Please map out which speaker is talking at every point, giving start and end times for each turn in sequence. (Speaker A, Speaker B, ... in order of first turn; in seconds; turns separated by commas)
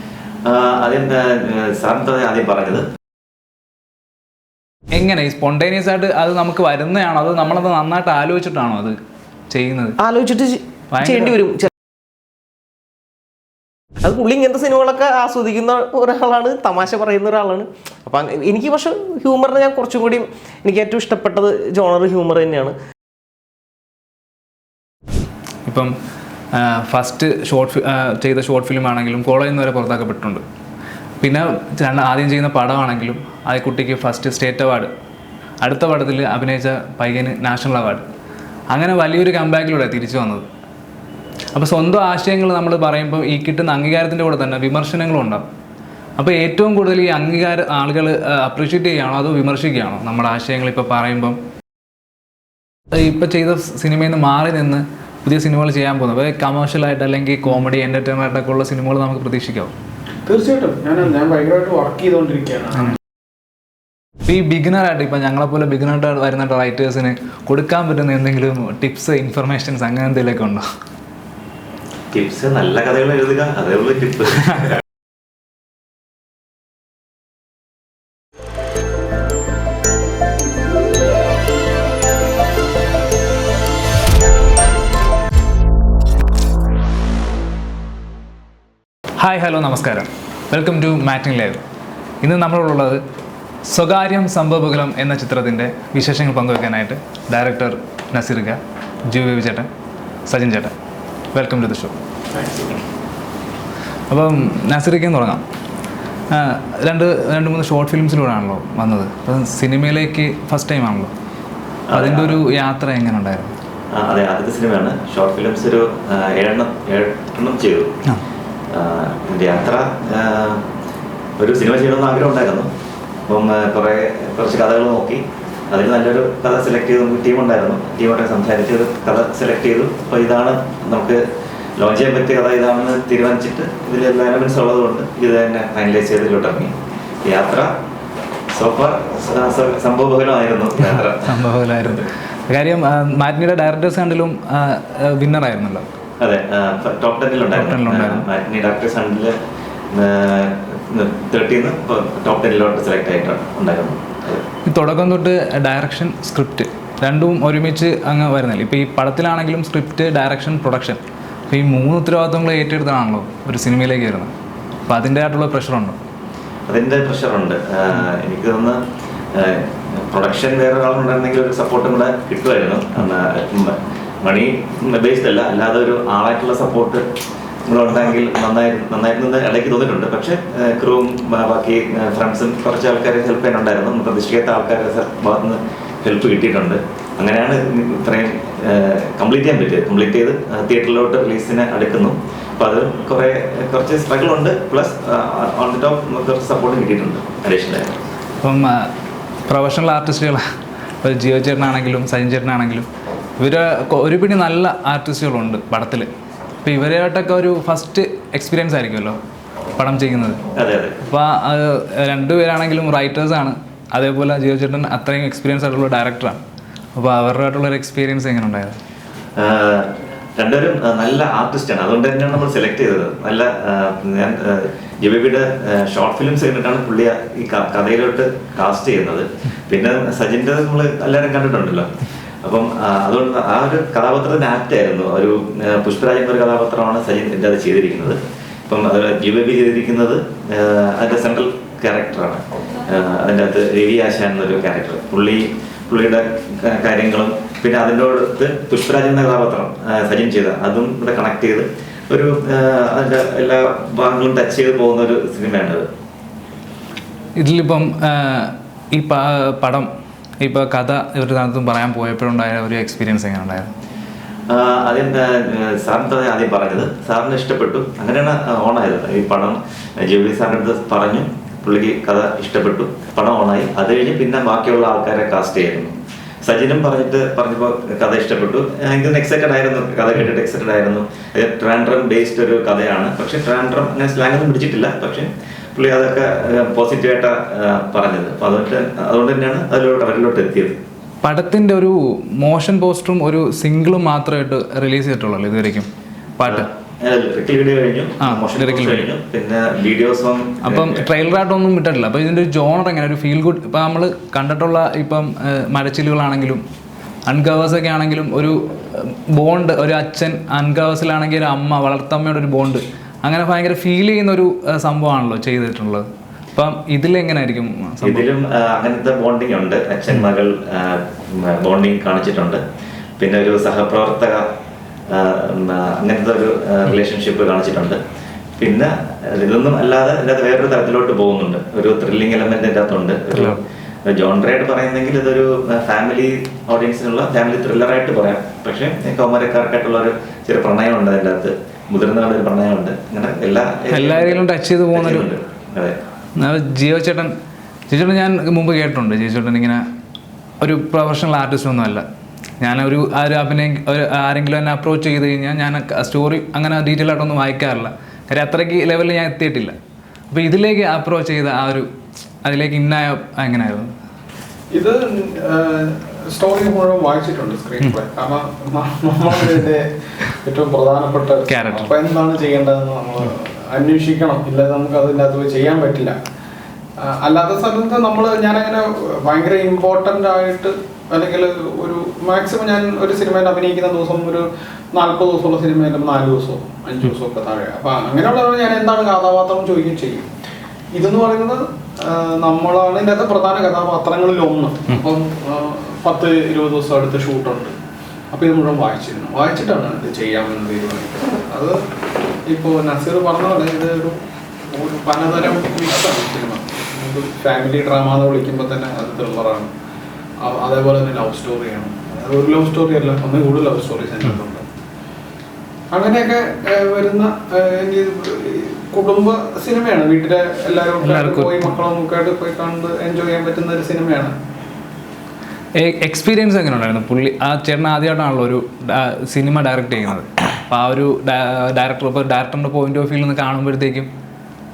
Speaker A: 0.4-2.9, Speaker B: 4.9-9.0, Speaker B: 9.5-10.0, Speaker C: 10.0-11.7, Speaker B: 10.9-11.4, Speaker C: 14.0-22.8, Speaker B: 25.7-26.0, Speaker B: 26.5-30.4, Speaker B: 31.2-34.9, Speaker B: 35.6-38.1, Speaker B: 38.7-40.5, Speaker B: 41.5-45.5, Speaker B: 46.2-51.4, Speaker B: 52.9-59.7, Speaker D: 60.3-63.0, Speaker B: 64.3-70.7, Speaker A: 72.1-74.7, Speaker B: 89.2-91.6, Speaker B: 92.2-93.0, Speaker B: 93.7-99.7, Speaker B: 100.3-100.8, Speaker B: 101.3-102.0, Speaker D: 102.3-102.8, Speaker B: 104.1-105.4, Speaker B: 106.3-111.1, Speaker A: 111.9-112.4, Speaker B: 111.9-113.5, Speaker A: 113.9-117.9, Speaker A: 118.7-120.7, Speaker A: 121.4-122.7, Speaker A: 123.3-131.2, Speaker A: 131.8-137.8, Speaker A: 138.5-141.4, Speaker B: 141.0-145.9, Speaker A: 146.2-149.4, Speaker B: 147.5-148.2, Speaker A: 149.9-154.5, Speaker B: 154.7-164.3, Speaker B: 164.9-166.0, Speaker A: 166.7-168.8, Speaker A: 169.3-177.0, Speaker A: 177.7-198.0, Speaker B: 198.4-198.9, Speaker B: 199.5-200.4, Speaker B: 201.0-202.9, Speaker B: 203.4-206.1, Speaker B: 206.6-209.2, Speaker B: 209.8-210.4, Speaker A: 210.6-211.0, Speaker B: 211.0-216.4, Speaker B: 216.9-218.8, Speaker A: 219.4-231.9, Speaker A: 232.4-255.9, Speaker B: 257.4-259.9, Speaker B: 260.4-263.7, Speaker A: 264.5-290.8, Speaker B: 291.2-296.7, Speaker A: 296.5-301.1, Speaker B: 298.2-299.1, Speaker B: 300.6-306.6, Speaker B: 307.3-318.3, Speaker A: 318.0-322.6, Speaker A: 323.2-324.5, Speaker A: 325.1-328.0, Speaker A: 328.6-346.0, Speaker B: 333.3-333.6, Speaker B: 343.9-345.3, Speaker B: 346.4-347.4, Speaker B: 347.9-349.8, Speaker B: 350.6-352.1, Speaker B: 352.6-359.8, Speaker B: 360.3-361.9, Speaker B: 362.4-363.9, Speaker D: 364.7-376.2, Speaker B: 371.5-371.9, Speaker D: 377.0-390.3, Speaker D: 390.9-397.7, Speaker D: 398.3-401.8, Speaker D: 402.5-404.2, Speaker D: 404.7-409.7, Speaker D: 410.4-414.6, Speaker D: 415.9-424.4, Speaker B: 421.0-421.8, Speaker B: 425.8-434.1